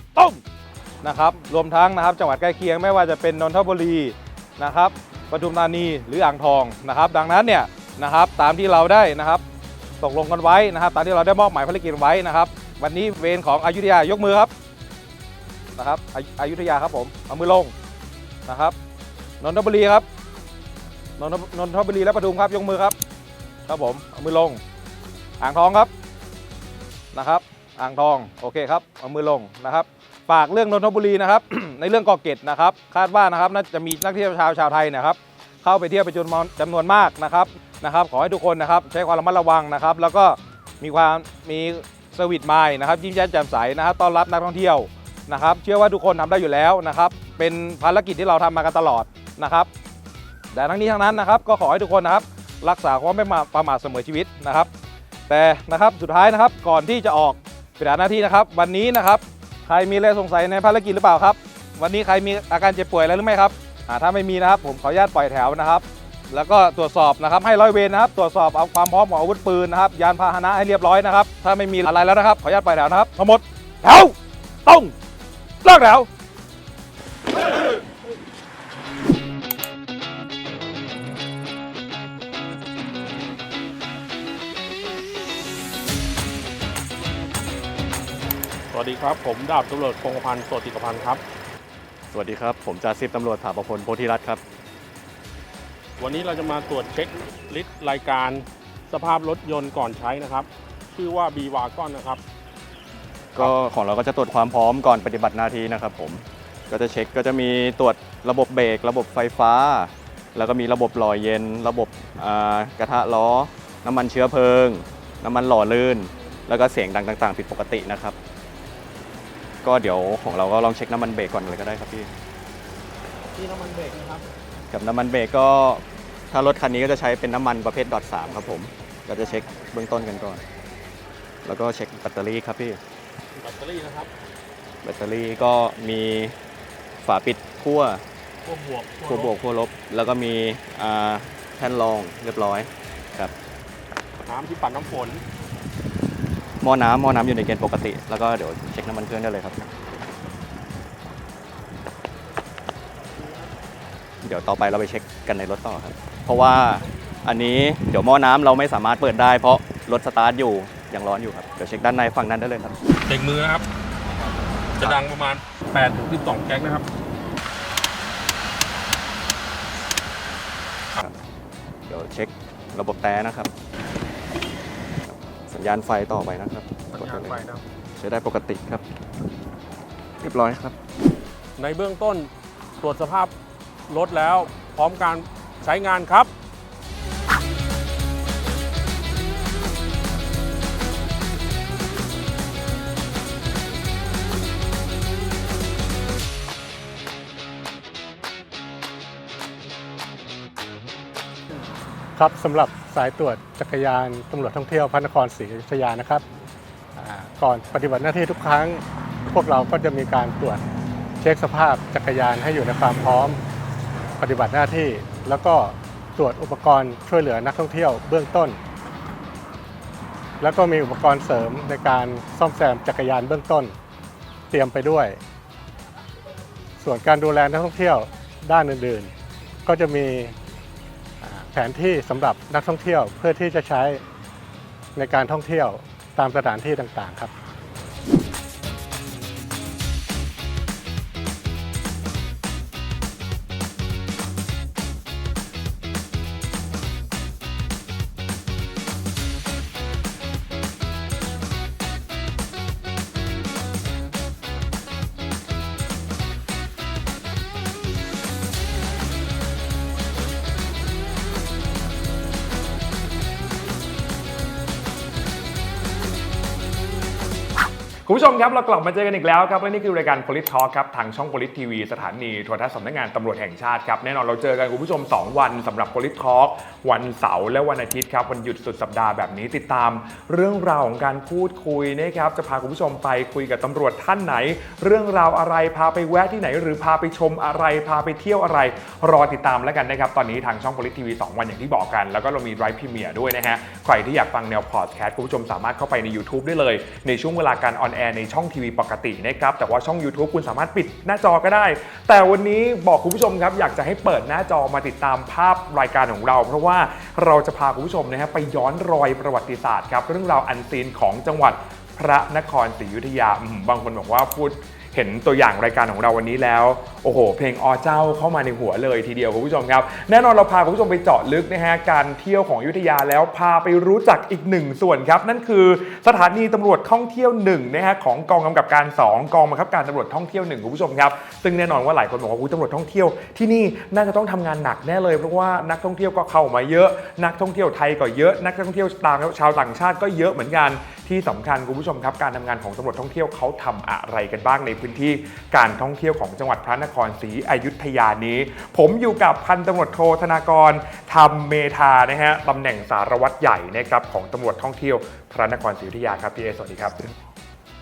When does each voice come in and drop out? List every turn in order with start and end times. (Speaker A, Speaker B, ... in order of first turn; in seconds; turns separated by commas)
Speaker A: 0.1-0.4, Speaker A: 1.0-9.4, Speaker A: 10.0-14.5, Speaker A: 15.8-17.7, Speaker A: 18.4-18.8, Speaker A: 19.4-20.1, Speaker A: 21.2-23.0, Speaker A: 23.7-24.6, Speaker A: 25.4-25.9, Speaker A: 27.1-49.7, Speaker A: 50.5-54.7, Speaker A: 55.3-74.9, Speaker A: 75.6-76.1, Speaker B: 88.7-91.2, Speaker C: 92.1-94.4, Speaker B: 96.0-102.2, Speaker C: 103.3-118.2, Speaker C: 119.6-122.1, Speaker B: 123.3-124.2, Speaker C: 124.7-130.4, Speaker C: 131.4-132.8, Speaker B: 133.3-134.1, Speaker C: 134.8-136.4, Speaker C: 137.0-138.0, Speaker B: 138.4-139.3, Speaker C: 139.1-143.3, Speaker B: 144.3-145.2, Speaker C: 146.6-149.6, Speaker C: 154.2-162.7, Speaker B: 163.1-163.6, Speaker B: 164.8-166.8, Speaker C: 171.9-173.5, Speaker C: 175.1-177.4, Speaker B: 176.9-177.6, Speaker C: 177.9-178.8, Speaker C: 180.2-180.8, Speaker B: 181.6-182.3, Speaker B: 182.8-183.3, Speaker B: 183.9-186.3, Speaker D: 202.2-206.2, Speaker D: 207.0-210.6, Speaker D: 211.2-213.4, Speaker D: 214.2-218.6, Speaker D: 220.4-223.8, Speaker D: 224.5-225.2, Speaker D: 226.8-229.1, Speaker D: 229.6-230.3, Speaker D: 231.2-234.0, Speaker D: 234.9-237.3, Speaker E: 268.1-357.1